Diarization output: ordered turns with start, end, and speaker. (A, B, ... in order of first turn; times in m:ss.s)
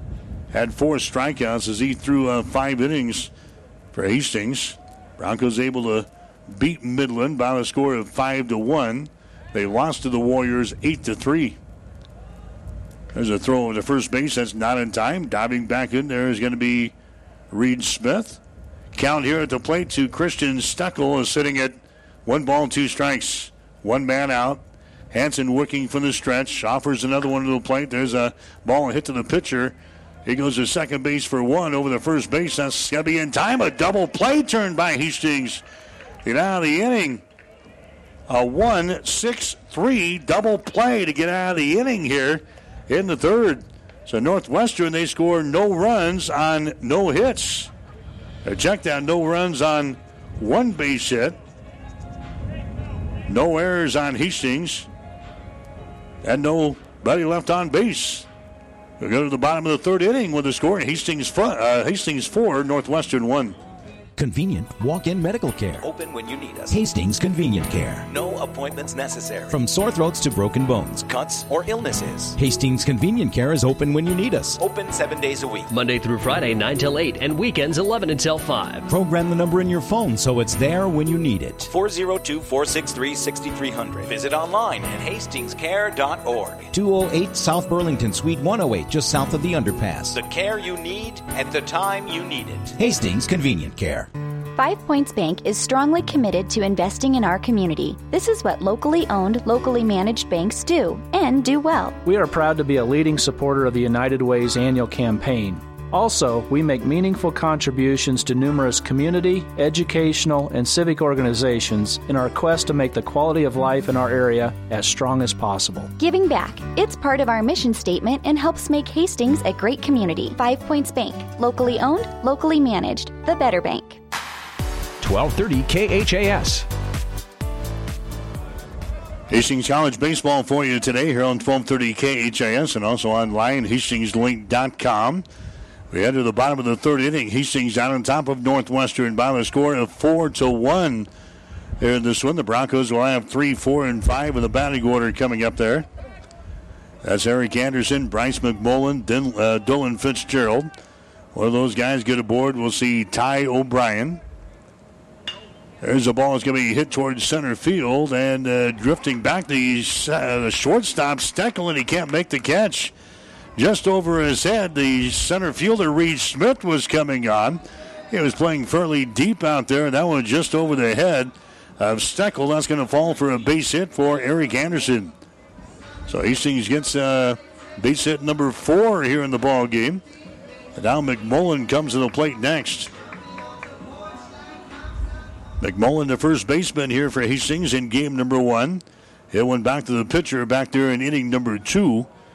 0:00.5-0:03.3 A
0:03.9-0:11.6 A
0:13.1-0:16.9 A
0:17.5-0:18.4 A
0:18.9-0:35.6 A
0:36.2-0:37.2 A
0:38.3-0:47.7 A
0:48.4-0:51.4 A
0:53.3-0:54.9 A
0:56.2-0:58.2 A
0:59.0-1:03.6 A
1:04.2-1:05.9 B
1:05.8-1:06.8 C
1:06.7-1:08.0 B
1:08.1-1:09.6 C
1:09.5-1:11.1 B
1:11.0-1:12.3 C
1:12.3-1:14.6 B
1:14.6-1:15.7 C
1:15.7-1:18.9 D
1:18.9-1:21.7 B
1:21.7-1:26.7 C
1:26.7-1:30.2 B
1:30.1-1:32.7 C
1:32.7-1:34.1 B
1:34.6-1:42.0 E
1:42.0-1:55.9 F
1:56.0-2:04.0 E
2:05.0-2:06.6 B
2:09.3-2:15.2 A
2:15.9-2:21.1 A
2:21.8-2:25.9 A
2:27.0-2:30.7 A
2:31.3-2:34.2 A
2:35.8-2:42.9 A
2:43.6-2:55.1 A
2:56.1-3:00.0 A
3:00.7-3:02.9 A
3:05.6-3:12.1 A